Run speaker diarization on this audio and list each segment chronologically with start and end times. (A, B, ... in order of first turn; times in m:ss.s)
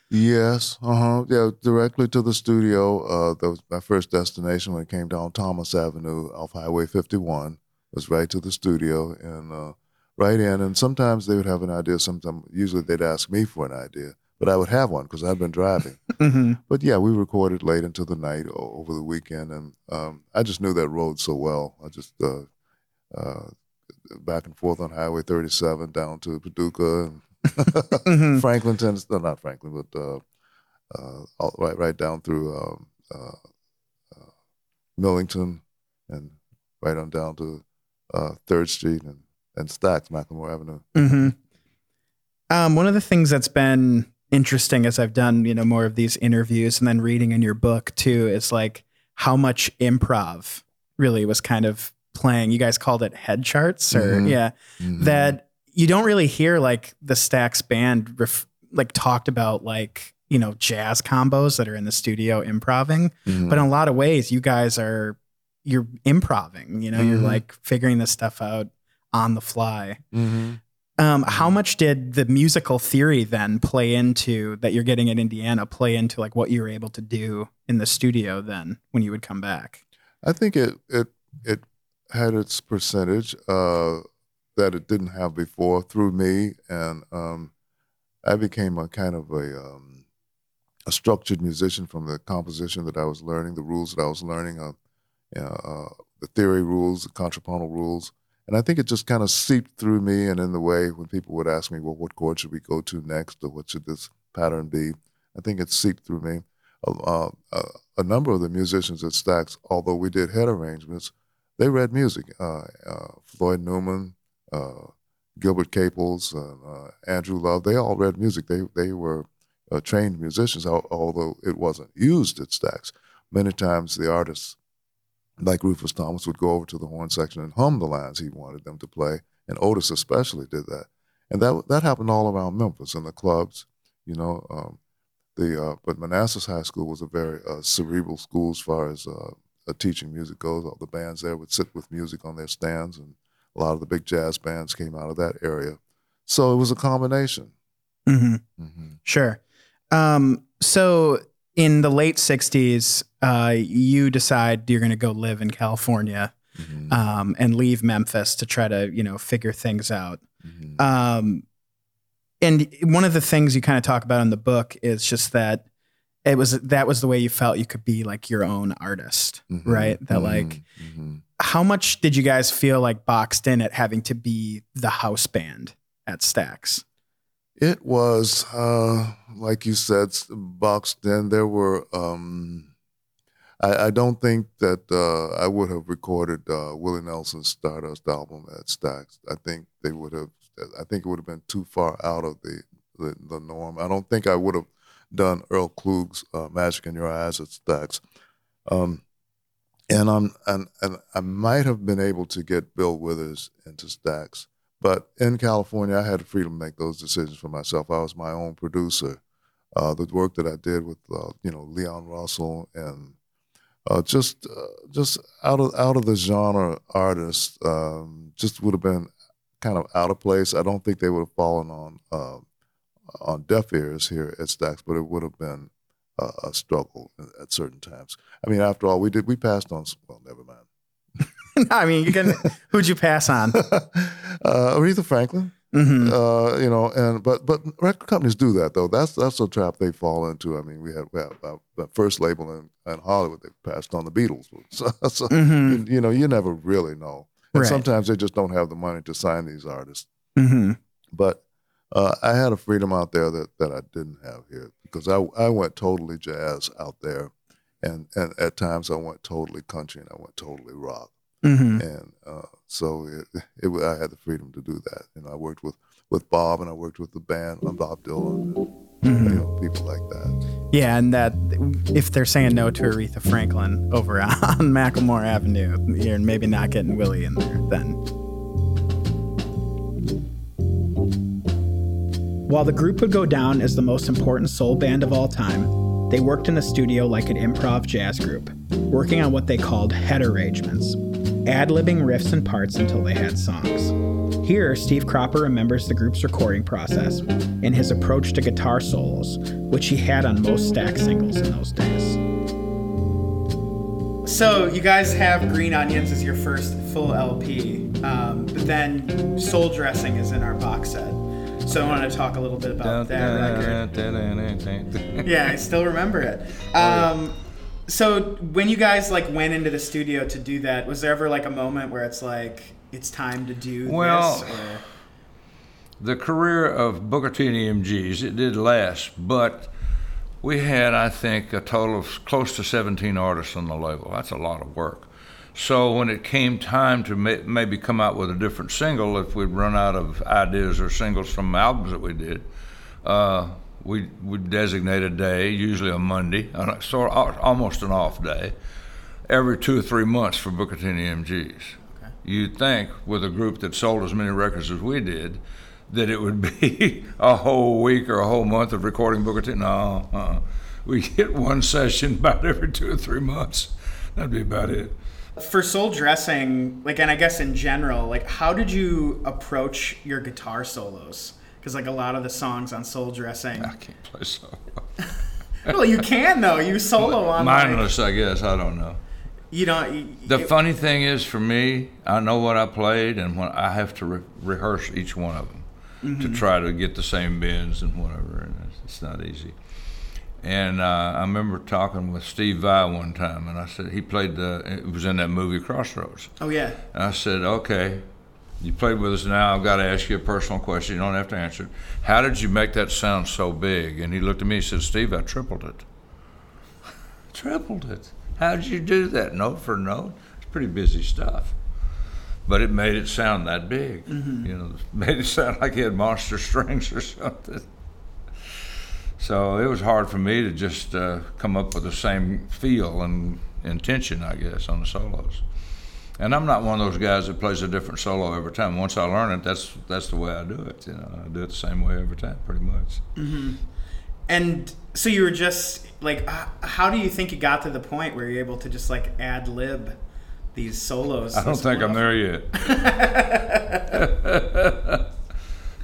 0:00.1-0:16.0 A
0:16.2-0:16.6 B
0:16.7-0:22.5 A
0:23.1-0:23.5 A
0:24.1-0:30.2 A
0:28.0-0:28.4 B
0:30.9-0:33.4 A
0:35.0-0:41.3 A
0:40.9-0:41.3 B
0:42.5-1:10.0 B
0:53.9-0:55.3 A
1:03.3-1:03.6 A
1:06.9-1:07.4 A
1:10.1-1:10.6 A
1:11.0-1:19.8 B
1:20.2-1:24.0 A
1:24.5-1:27.5 A
1:28.2-1:30.0 A
1:30.9-1:34.8 A
1:35.3-2:04.6 A
2:05.4-2:14.8 A
2:15.4-2:27.5 A
2:28.1-2:28.4 B
2:29.0-2:29.4 B
2:29.9-2:36.3 B
2:36.6-2:36.9 A
2:36.9-2:40.2 B
2:40.4-2:40.8 A
2:40.8-2:41.4 B
2:42.4-2:45.6 B
2:46.2-2:50.6 B
2:49.5-2:51.2 A
2:51.4-2:56.8 B
2:57.6-3:02.7 A
3:03.6-3:18.0 A
3:18.7-3:19.0 A
3:19.9-3:29.2 A
3:29.7-3:33.1 A
3:33.9-3:42.4 A
3:43.1-3:50.6 A
3:51.6-3:53.6 B
3:53.5-4:10.1 A
3:55.7-3:56.1 B
4:05.3-4:05.8 B
4:07.5-4:07.8 B
4:10.4-4:10.8 B
4:11.1-4:21.1 A
4:21.4-4:21.8 B
4:21.8-4:28.7 A
4:29.0-4:29.4 B
4:29.2-4:30.3 A
4:30.7-4:38.0 B
4:42.5-5:02.2 B
5:04.2-5:13.8 B
5:12.8-5:15.5 C
5:15.2-5:24.8 B
5:23.8-5:24.8 C
5:26.0-5:29.7 C
5:30.4-5:42.4 C
5:43.0-5:48.5 C
5:49.3-6:05.0 C
6:05.4-6:13.7 B
6:13.6-6:14.8 C
6:15.7-6:18.0 B
6:17.0-6:19.0 C
6:19.5-6:20.5 B
6:20.3-6:29.5 C
6:26.0-6:26.4 B
6:30.4-6:36.4 C
6:36.4-6:36.8 B
6:36.9-6:38.0 C
6:38.6-6:45.8 C
6:47.3-6:51.5 C
6:52.4-6:57.6 C
6:54.1-6:54.5 B
6:59.2-7:05.4 C
7:06.2-7:13.0 C
7:13.2-7:13.6 B
7:14.3-7:20.0 B
7:20.5-7:24.0 B
7:21.3-7:22.6 C
7:23.9-7:25.0 C